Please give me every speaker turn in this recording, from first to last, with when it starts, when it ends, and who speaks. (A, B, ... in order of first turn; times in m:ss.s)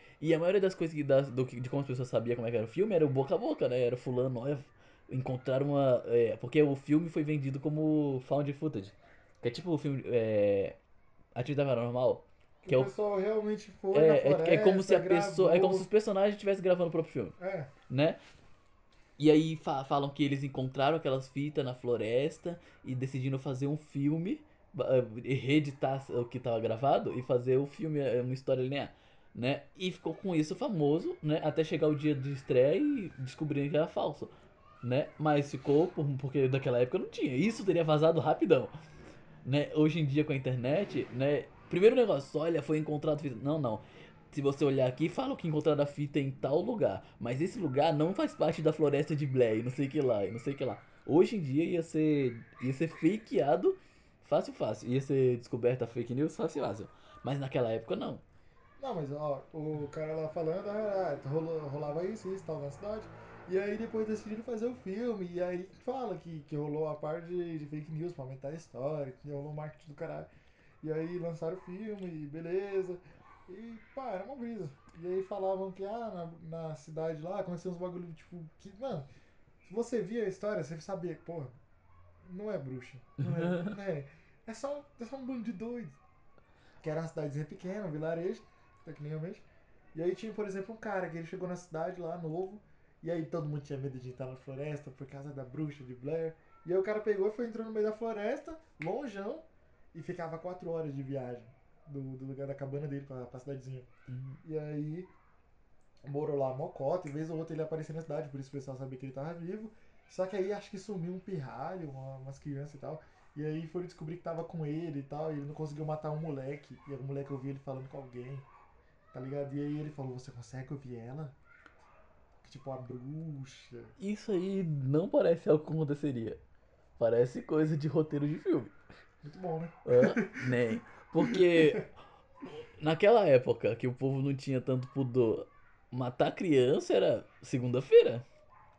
0:00.2-0:10.8 A
0:11.4-0:12.9 A
0:12.6-0:15.9 B
0:13.9-0:17.4 A
0:17.4-0:17.7 B
0:17.9-0:18.2 A
0:19.2-0:38.7 A
0:39.4-0:58.2 A
0:58.8-1:10.3 B
1:10.8-1:19.1 B
1:19.6-1:21.6 B
1:22.2-1:26.0 B
1:23.3-1:23.7 A
1:26.8-1:43.9 B
1:44.1-1:44.4 A
1:44.4-1:45.1 B
1:46.0-1:58.5 B
1:59.1-2:01.3 B
2:02.4-2:03.9 B
2:04.0-2:06.4 A
2:07.0-2:08.7 A
2:09.2-2:10.6 B
2:09.8-2:11.9 A
2:11.2-2:11.8 B
2:12.5-2:18.2 A